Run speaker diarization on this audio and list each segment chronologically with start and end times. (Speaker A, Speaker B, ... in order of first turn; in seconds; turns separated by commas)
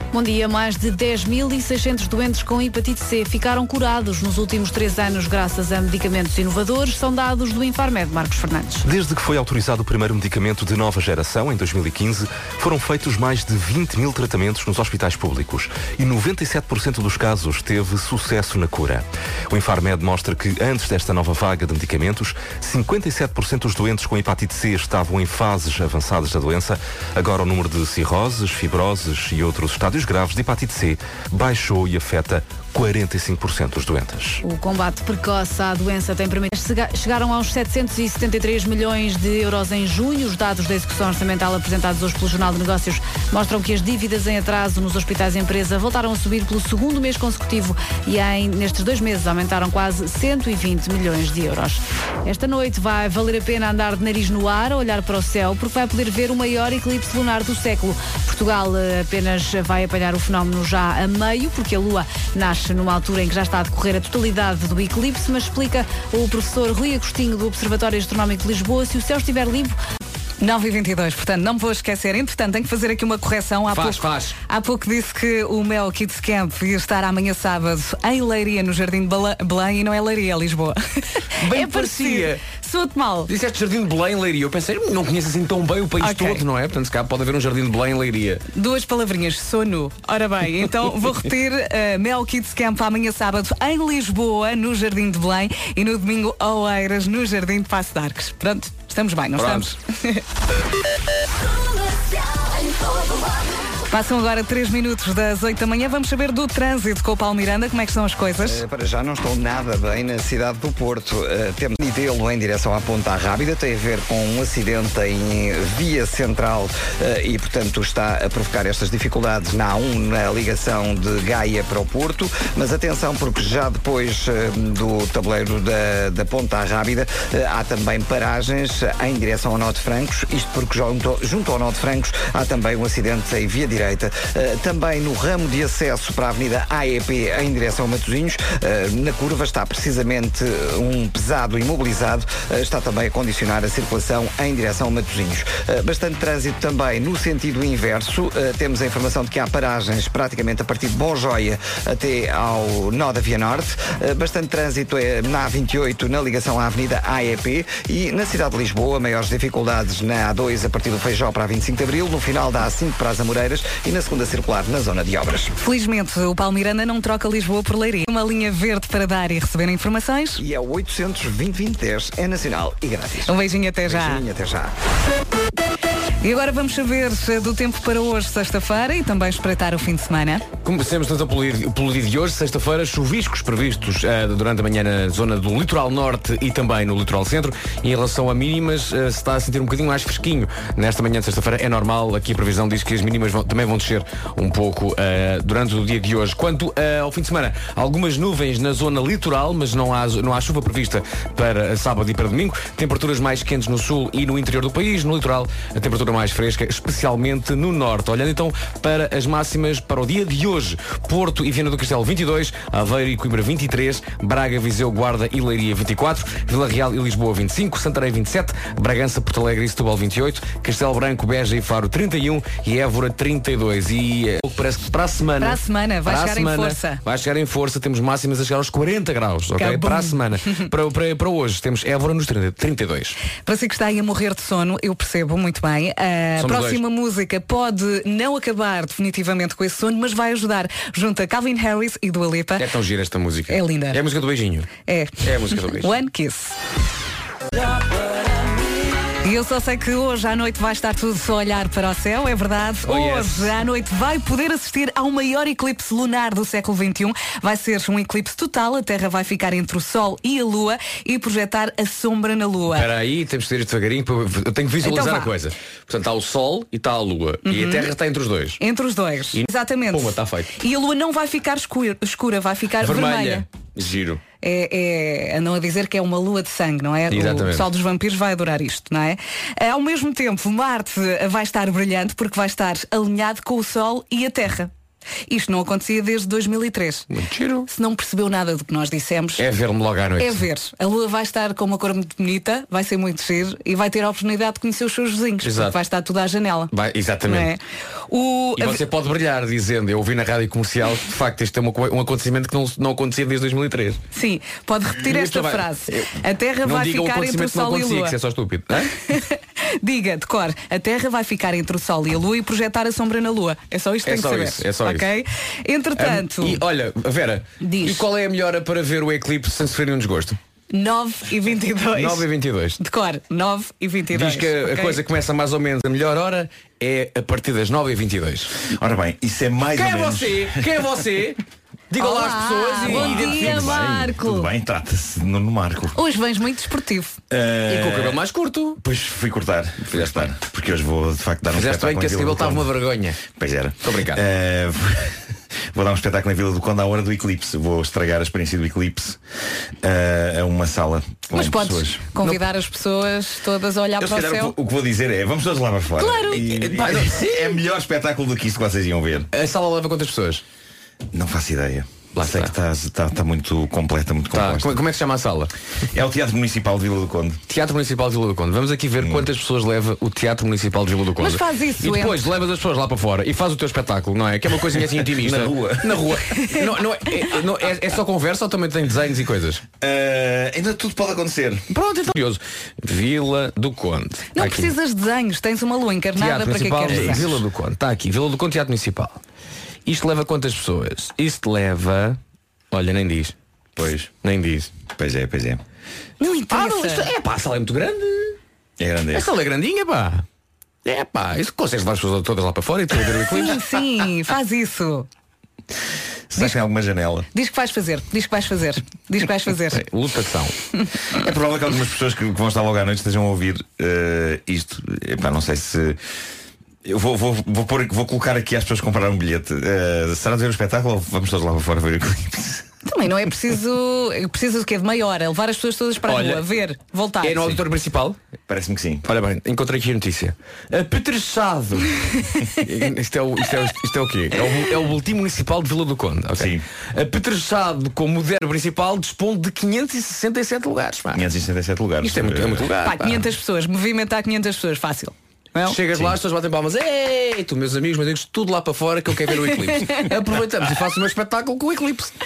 Speaker A: 0.1-8.9, Speaker B: 8.8-34.4, Speaker A: 34.4-69.8, Speaker C: 70.4-83.3, Speaker D: 73.7-74.4, Speaker D: 81.4-82.4, Speaker D: 83.3-88.4, Speaker C: 86.0-86.4, Speaker C: 88.5-100.2, Speaker D: 99.4-99.7, Speaker C: 103.9-108.6, Speaker E: 108.4-165.5, Speaker C: 165.6-170.4, Speaker E: 170.4-174.7, Speaker C: 173.3-174.2, Speaker C: 176.2-180.4, Speaker D: 180.6-233.2, Speaker C: 225.4-227.0, Speaker C: 229.6-230.7, Speaker C: 233.4-242.7, Speaker D: 236.4-236.8, Speaker D: 242.6-244.7, Speaker C: 243.5-244.0, Speaker C: 244.9-246.6, Speaker D: 245.2-245.9, Speaker C: 249.2-262.9, Speaker D: 252.9-253.6, Speaker D: 262.7-268.6, Speaker C: 264.8-265.3, Speaker C: 267.4-267.9, Speaker C: 268.6-273.4, Speaker D: 269.3-270.5, Speaker D: 272.8-274.2, Speaker C: 274.4-284.7, Speaker D: 277.1-277.7, Speaker C: 285.3-287.1, Speaker D: 287.1-287.7, Speaker C: 287.7-289.4, Speaker D: 289.4-290.4, Speaker C: 290.2-296.7, Speaker D: 295.4-295.8, Speaker D: 296.7-297.5, Speaker C: 297.2-298.8, Speaker D: 298.6-304.0, Speaker C: 304.1-308.1, Speaker D: 305.0-308.9, Speaker C: 309.1-316.6, Speaker D: 314.1-315.1, Speaker D: 316.0-320.4, Speaker C: 317.6-318.1, Speaker C: 320.7-322.2, Speaker D: 321.9-322.8, Speaker C: 322.8-325.0, Speaker D: 324.1-328.5, Speaker F: 328.7-330.6, Speaker D: 329.8-333.9, Speaker C: 332.0-334.5, Speaker F: 332.8-335.9, Speaker C: 335.9-337.2, Speaker F: 337.3-338.2, Speaker D: 337.7-338.8, Speaker F: 338.8-342.7, Speaker D: 339.9-340.3, Speaker D: 341.5-343.2, Speaker F: 343.3-345.2, Speaker D: 343.8-344.2, Speaker F: 345.7-349.2, Speaker F: 349.8-352.0, Speaker C: 351.3-354.5, Speaker F: 354.0-359.3, Speaker C: 356.0-356.5, Speaker D: 356.6-357.6, Speaker D: 359.3-360.4, Speaker F: 361.1-364.8, Speaker D: 362.2-362.5, Speaker D: 364.3-365.5, Speaker F: 365.9-367.4, Speaker D: 367.5-379.6, Speaker F: 369.0-369.3, Speaker C: 371.2-372.2, Speaker F: 375.0-376.2, Speaker C: 376.3-376.7, Speaker F: 379.8-381.7, Speaker D: 381.7-384.7, Speaker C: 384.4-387.3, Speaker D: 386.2-389.2, Speaker F: 386.9-387.4, Speaker D: 389.9-392.2, Speaker D: 392.7-393.4, Speaker F: 393.8-394.1, Speaker D: 394.2-394.7, Speaker F: 394.9-395.6, Speaker C: 396.2-397.1, Speaker D: 396.5-398.4, Speaker F: 398.8-399.3, Speaker D: 399.1-400.2, Speaker D: 400.9-403.6, Speaker C: 403.3-405.1, Speaker F: 406.3-407.3, Speaker C: 407.3-409.8, Speaker D: 409.8-410.6, Speaker F: 411.1-416.0, Speaker F: 416.9-422.6, Speaker C: 422.9-427.6, Speaker D: 426.1-426.4, Speaker D: 427.2-428.2, Speaker F: 428.5-429.1, Speaker D: 429.1-441.3, Speaker F: 436.4-436.6, Speaker F: 441.1-442.7, Speaker D: 442.0-443.3, Speaker C: 442.8-445.8, Speaker D: 445.7-452.2, Speaker C: 449.5-450.1